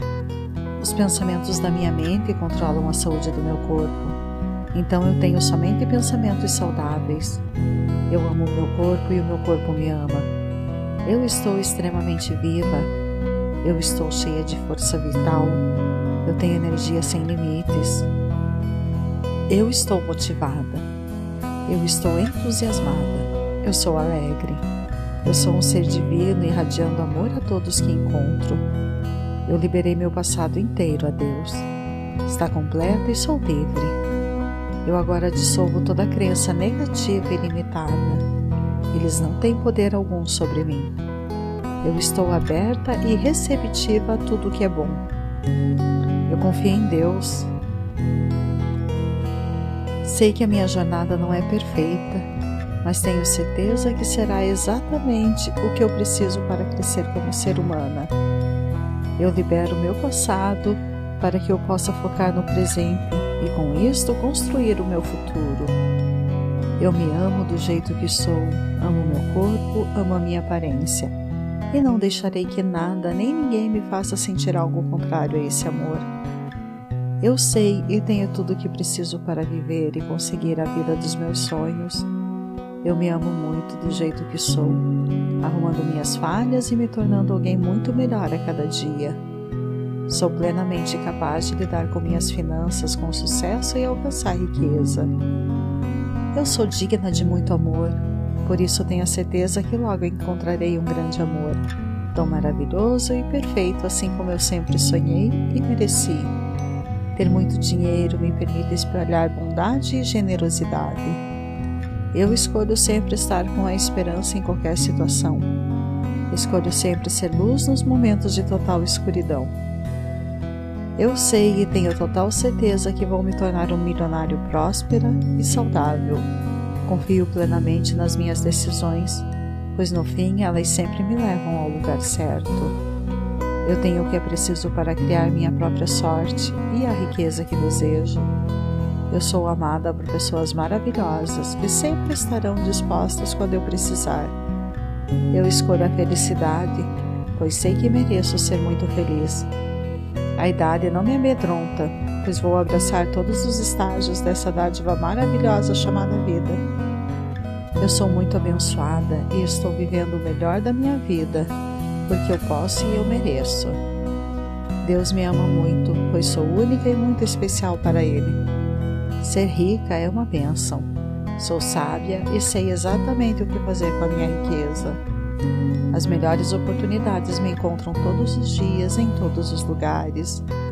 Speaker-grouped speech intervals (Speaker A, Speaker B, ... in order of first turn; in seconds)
Speaker A: 0.8-4.2, 4.7-7.4, 8.1-10.3, 11.0-12.9, 13.6-15.6, 16.2-18.1, 19.5-20.9, 21.7-24.7, 25.2-28.7, 29.4-31.7, 32.2-34.0, 34.8-38.2, 38.9-40.9, 41.8-45.0, 46.3-47.5, 50.0-52.3, 52.8-58.1, 59.2-65.8, 66.8-71.1, 71.7-76.1, 77.2-82.1, 82.8-84.9, 85.4-89.2, 90.1-95.1, 96.3-101.6, 102.1-106.3, 107.1-111.2, 112.1-115.5, 116.3-119.5, 121.0-126.3, 126.8-132.8, 133.6-138.3, 139.1-144.3, 145.3-149.5, 150.4-156.6, 157.8-161.5, 162.1-163.8, 164.8-168.4, 169.2-175.0, 175.9-180.4